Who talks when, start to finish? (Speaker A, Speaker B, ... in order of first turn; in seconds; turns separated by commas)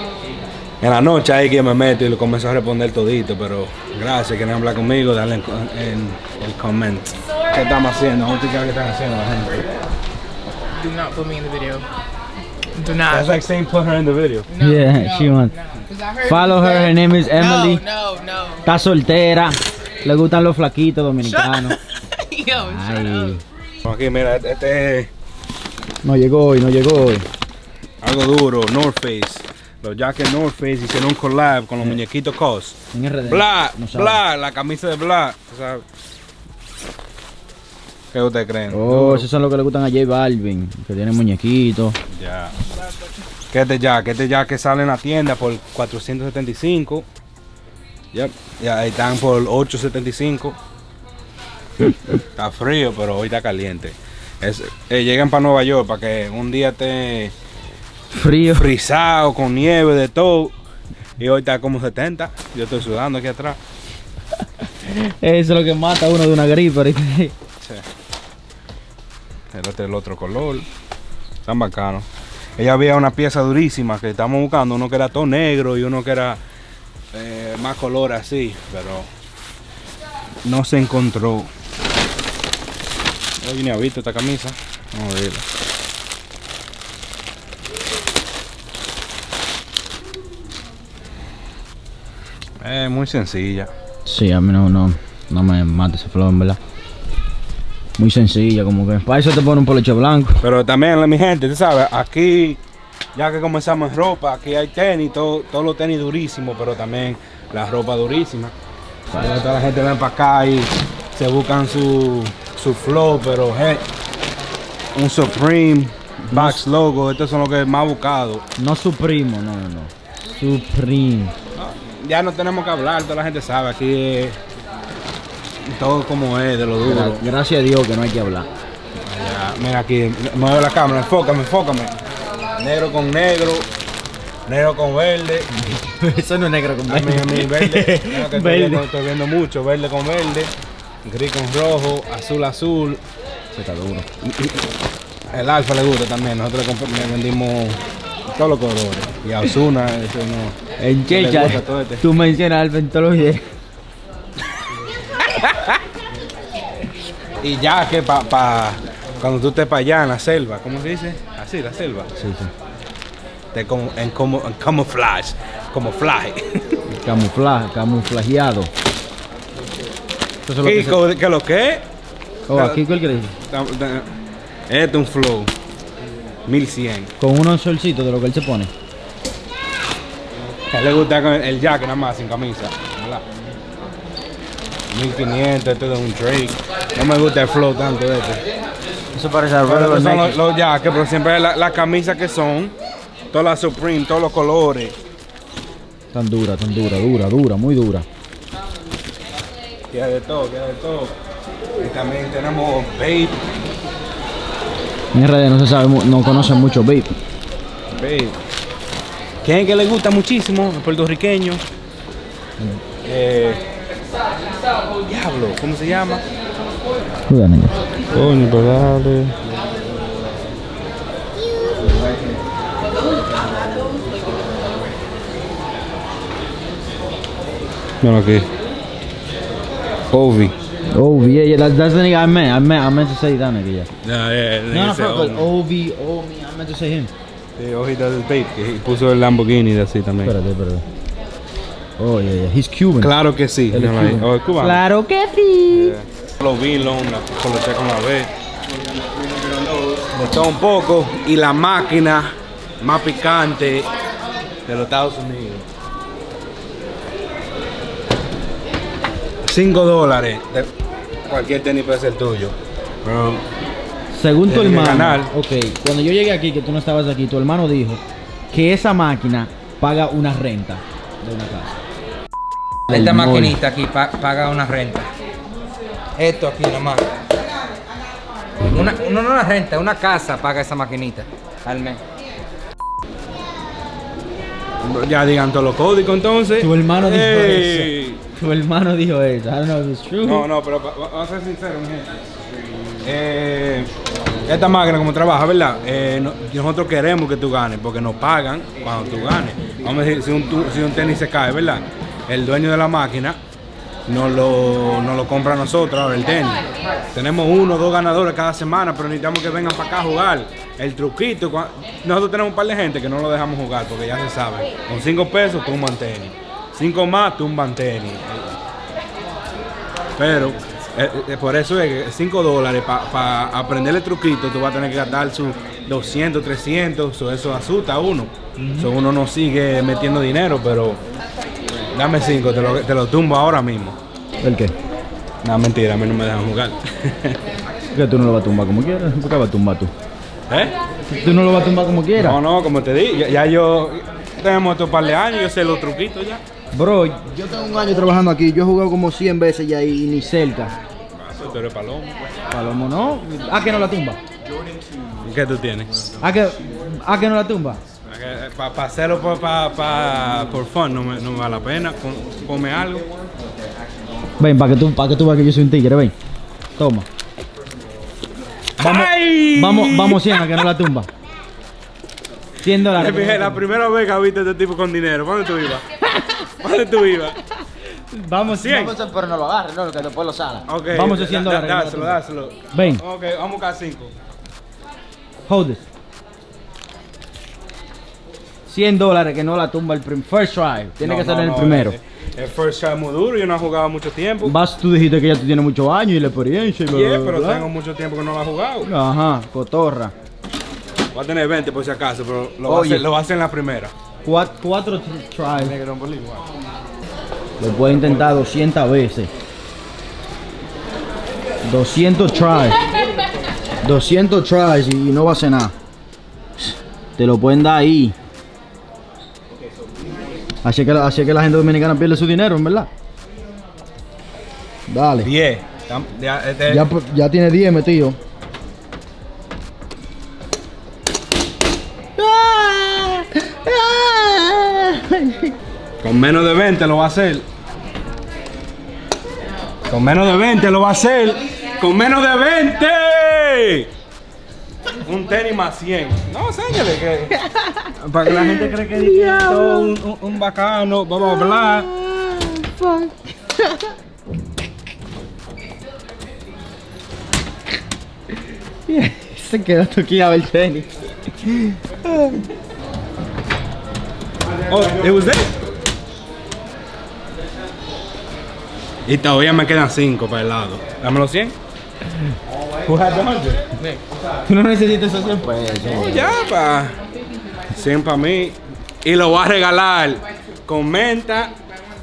Speaker A: 0.8-9.7, Speaker B: 10.7-11.8, Speaker B: 12.7-13.4, Speaker A: 13.1-14.5, Speaker B: 14.5-18.6, Speaker C: 14.6-15.5, Speaker C: 16.2-17.8, Speaker C: 18.6-21.8, Speaker B: 21.3-23.4, Speaker C: 22.5-23.4, Speaker A: 23.8-25.1, Speaker C: 26.0-27.2, Speaker A: 28.0-35.8, Speaker C: 32.9-34.2, Speaker A: 38.1-39.2, Speaker C: 38.7-42.0, Speaker A: 42.1-42.5, Speaker A: 43.5-47.0, Speaker A: 48.1-50.6, Speaker A: 52.4-57.3, Speaker C: 58.1-58.7, Speaker A: 58.5-60.5, Speaker A: 61.2-63.6, Speaker C: 64.8-67.3, Speaker A: 69.5-70.7, Speaker A: 71.4-72.0, Speaker A: 72.6-76.4, Speaker A: 77.1-79.1, Speaker A: 80.4-81.5, Speaker A: 83.4-85.5, Speaker A: 92.6-93.7, Speaker C: 94.0-96.6, Speaker C: 98.0-100.4, Speaker A: 100.4-102.6, Speaker A: 103.2-108.5, Speaker A: 109.2-113.8, Speaker A: 114.9-118.4, Speaker C: 116.3-116.6, Speaker C: 118.6-121.3, Speaker A: 121.5-124.4, Speaker A: 125.7-127.2, Speaker C: 126.8-128.5, Speaker A: 129.1-131.9, Speaker A: 132.6-133.7, Speaker A: 134.5-135.7, Speaker C: 135.6-138.8, Speaker A: 136.9-140.5, Speaker A: 141.0-143.0, Speaker C: 143.5-144.1, Speaker A: 144.2-144.6, Speaker A: 145.3-147.8, Speaker A: 148.3-150.6, Speaker C: 150.8-153.4, Speaker A: 151.1-152.0, Speaker A: 155.3-155.8, Speaker A: 157.4-162.1, Speaker C: 162.2-162.5, Speaker A: 163.5-166.6, Speaker C: 166.9-168.7, Speaker C: 170.5-171.0, Speaker A: 170.6-171.8, Speaker C: 172.5-173.3, Speaker A: 172.5-174.1, Speaker A: 174.7-175.5, Speaker A: 176.5-177.1, Speaker C: 177.2-178.7, Speaker A: 180.7-183.2, Speaker A: 184.9-188.4, Speaker C: 189.1-190.4, Speaker A: 189.7-192.7, Speaker A: 193.3-194.9, Speaker C: 196.1-198.0, Speaker A: 199.9-201.2, Speaker A: 201.8-203.4, Speaker C: 205.1-207.1, Speaker A: 207.9-208.3, Speaker A: 209.4-211.6, Speaker A: 213.0-213.6, Speaker A: 215.0-216.2, Speaker C: 217.3-217.8, Speaker A: 218.1-219.3, Speaker A: 228.0-228.5, Speaker A: 230.1-230.5, Speaker C: 230.9-233.9, Speaker A: 234.0-235.5, Speaker C: 234.7-237.1, Speaker A: 237.6-240.3, Speaker C: 240.2-240.8, Speaker C: 242.0-243.1, Speaker A: 243.0-244.8, Speaker C: 243.7-245.9, Speaker A: 245.7-248.3, Speaker A: 250.0-253.9, Speaker A: 254.7-255.7, Speaker A: 259.4-260.7, Speaker A: 261.3-263.4, Speaker C: 264.1-271.8, Speaker A: 264.5-265.3, Speaker D: 272.9-275.1, Speaker C: 272.9-273.5, Speaker D: 276.2-277.1, Speaker D: 278.7-282.0, Speaker A: 284.8-288.2, Speaker C: 286.6-290.5, Speaker A: 290.2-292.1, Speaker A: 293.0-293.9, Speaker A: 294.5-303.4, Speaker A: 304.1-318.5, Speaker A: 320.2-331.0, Speaker C: 328.6-328.9, Speaker A: 331.9-334.0, Speaker C: 334.4-334.7, Speaker A: 335.4-337.4, Speaker C: 337.9-339.9, Speaker A: 340.5-340.7, Speaker C: 341.1-342.4, Speaker A: 342.2-346.4, Speaker C: 346.7-350.7, Speaker A: 351.2-352.1, Speaker C: 352.5-354.2, Speaker A: 355.2-356.0, Speaker C: 356.2-357.8, Speaker A: 358.1-363.0, Speaker C: 364.4-366.1, Speaker C: 366.8-367.1, Speaker A: 368.8-370.6, Speaker C: 368.8-371.1, Speaker C: 372.6-373.6, Speaker A: 372.8-375.8, Speaker A: 376.6-377.4, Speaker C: 378.1-382.2, Speaker A: 378.5-378.9, Speaker A: 380.7-384.1, Speaker C: 382.7-383.0, Speaker C: 385.5-385.8, Speaker C: 388.7-392.0, Speaker A: 391.0-394.5, Speaker C: 394.4-397.7, Speaker A: 396.9-398.9, Speaker C: 398.8-400.1, Speaker A: 401.1-403.9, Speaker C: 402.6-403.0, Speaker C: 404.2-405.7, Speaker A: 405.6-406.4, Speaker C: 407.6-409.3, Speaker A: 407.9-408.4, Speaker C: 411.6-412.8, Speaker C: 413.8-415.7, Speaker C: 416.7-418.1, Speaker C: 420.6-422.9, Speaker C: 424.9-425.3, Speaker A: 425.2-426.9, Speaker C: 426.7-428.2, Speaker C: 432.2-435.5, Speaker A: 436.0-437.4, Speaker A: 439.9-443.9, Speaker A: 445.0-447.4, Speaker C: 447.7-449.9, Speaker A: 448.0-451.9, Speaker C: 451.2-453.9, Speaker C: 458.9-462.4, Speaker A: 464.7-465.5, Speaker A: 469.1-471.5, Speaker A: 472.8-473.6, Speaker C: 474.5-476.3, Speaker A: 475.9-477.0, Speaker A: 477.7-481.6